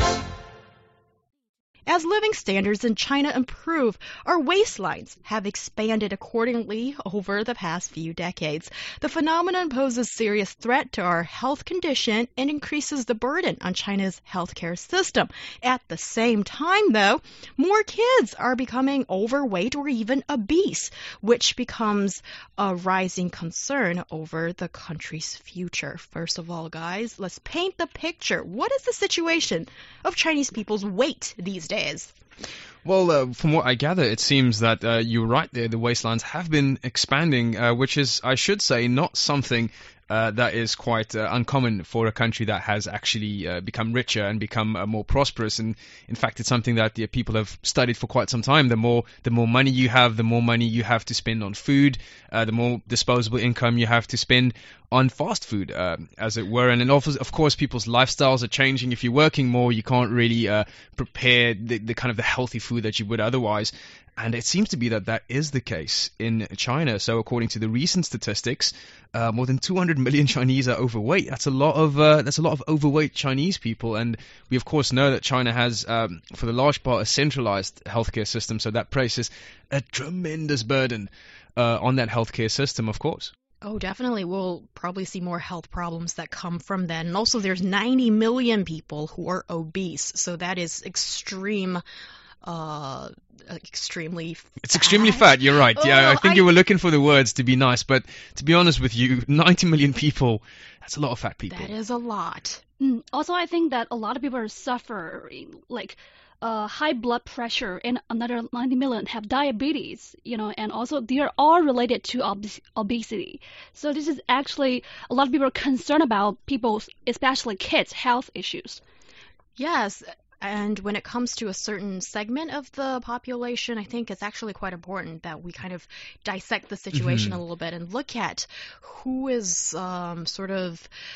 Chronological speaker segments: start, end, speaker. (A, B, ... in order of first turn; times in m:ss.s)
0:01.9-0:32.1 A
0:32.8-1:23.3 B
1:23.6-1:31.8 A
1:32.4-1:36.5 A
1:34.6-1:41.7 B
1:41.5-1:42.6 A
1:42.8-1:58.8 C
1:59.6-2:10.9 A
2:06.9-2:07.4 B